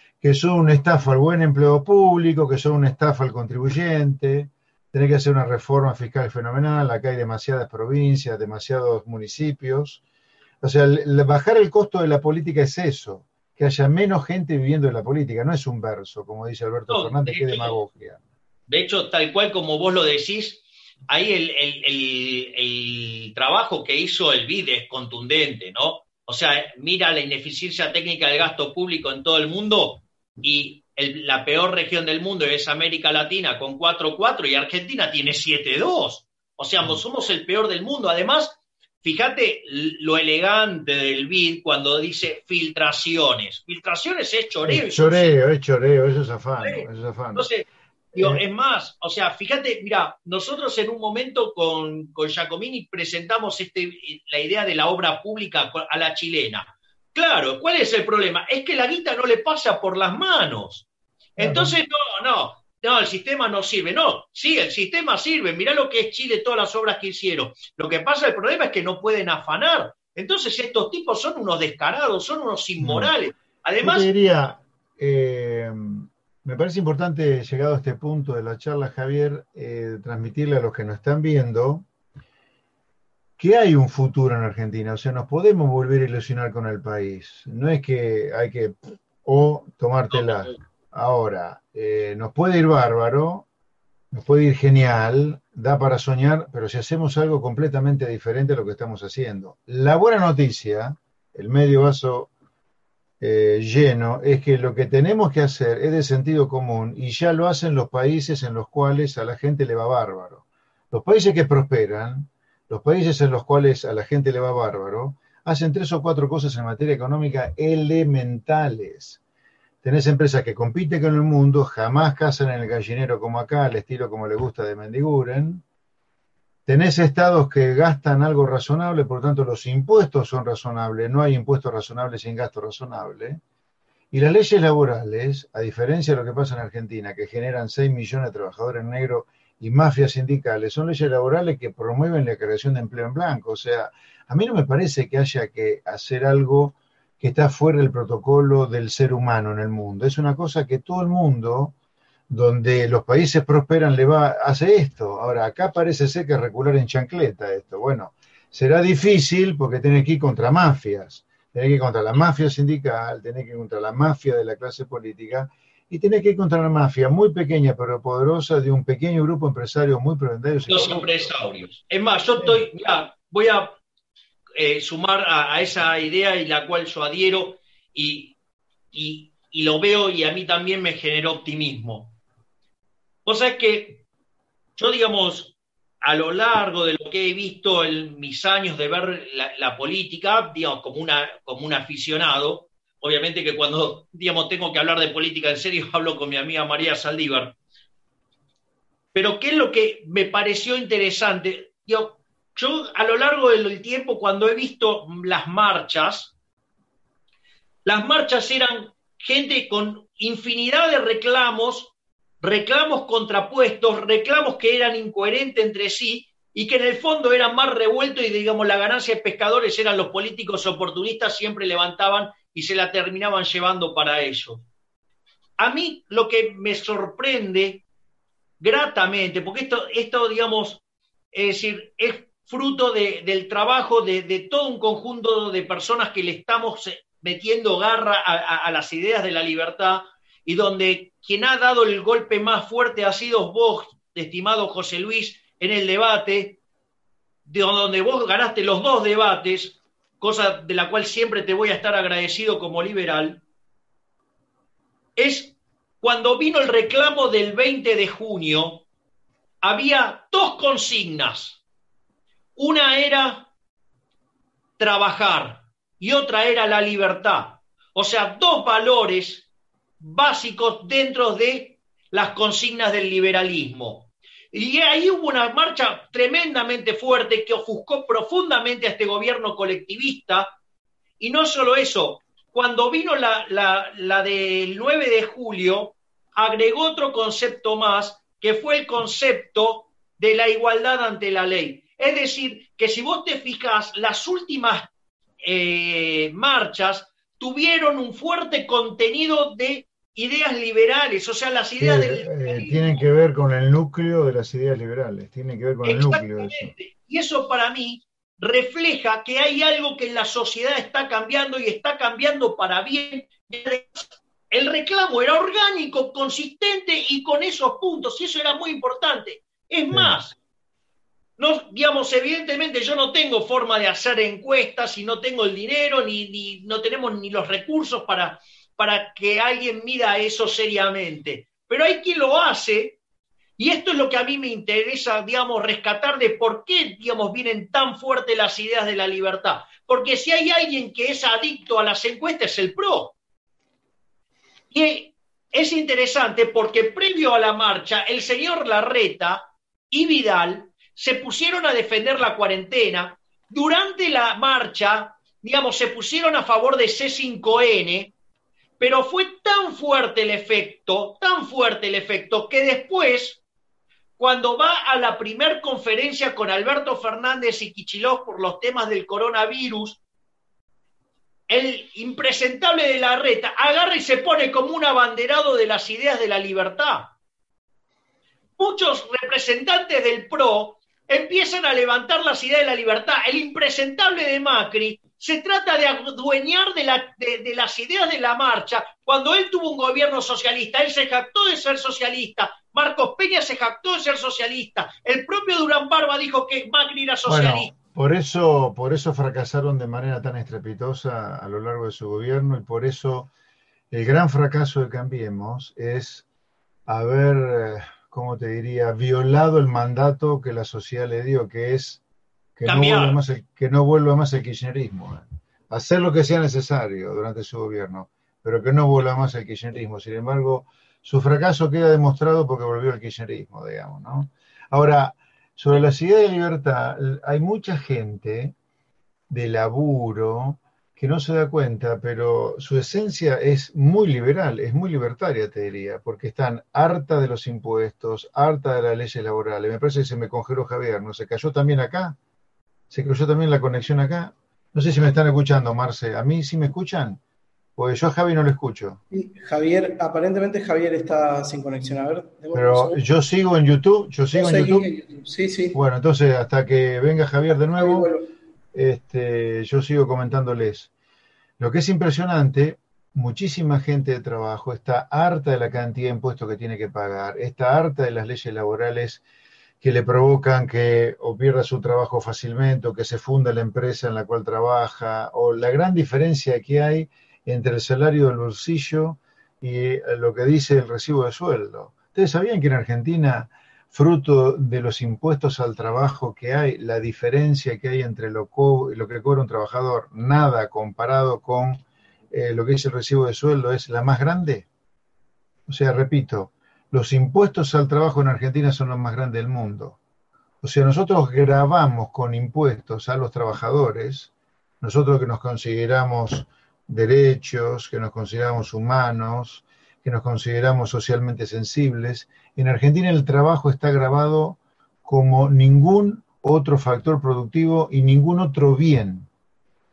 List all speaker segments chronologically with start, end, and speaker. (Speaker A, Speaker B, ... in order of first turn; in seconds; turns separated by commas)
Speaker A: 0.2-10.0, Speaker A: 10.6-18.2, Speaker B: 16.9-17.8, Speaker B: 18.7-45.4, Speaker A: 44.6-47.5, Speaker B: 46.6-60.9, Speaker A: 48.1-48.4, Speaker B: 61.4-74.1, Speaker A: 61.4-61.8, Speaker A: 72.8-73.1, Speaker A: 73.8-81.9, Speaker A: 83.4-93.5, Speaker A: 94.1-102.3, Speaker A: 103.2-119.2, Speaker A: 119.8-125.6, Speaker A: 126.7-133.4, Speaker A: 134.1-151.7, Speaker A: 152.3-171.3, Speaker B: 170.7-173.8, Speaker A: 172.4-172.6, Speaker B: 174.6-178.4, Speaker B: 178.9-182.1, Speaker B: 183.2-184.0, Speaker B: 184.8-197.6, Speaker B: 199.1-206.3, Speaker B: 207.8-224.7, Speaker B: 225.6-227.8, Speaker B: 228.6-230.8, Speaker B: 231.3-246.6, Speaker B: 247.5-253.4, Speaker B: 255.2-258.9, Speaker B: 259.6-261.6, Speaker B: 262.6-263.5, Speaker B: 264.8-269.5, Speaker B: 270.0-280.6, Speaker B: 281.2-294.9, Speaker B: 295.4-303.0, Speaker A: 301.8-306.7, Speaker B: 305.8-320.4, Speaker A: 319.9-320.2, Speaker B: 321.4-333.0, Speaker B: 333.6-343.2, Speaker B: 344.7-358.1, Speaker B: 358.8-363.4, Speaker B: 364.2-370.0, Speaker B: 371.5-377.1, Speaker B: 378.6-397.7, Speaker A: 397.3-403.3, Speaker A: 403.9-406.3, Speaker A: 406.9-412.0, Speaker A: 412.6-428.6, Speaker B: 412.6-413.2, Speaker A: 429.3-442.2, Speaker A: 442.9-447.2, Speaker A: 447.8-449.0, Speaker C: 449.1-453.0, Speaker A: 452.5-454.9, Speaker C: 454.3-455.8, Speaker A: 455.7-458.1, Speaker C: 457.8-458.3, Speaker A: 458.7-460.9, Speaker A: 461.6-469.2, Speaker A: 469.8-494.7, Speaker A: 495.7-500.0, Speaker A: 500.6-519.3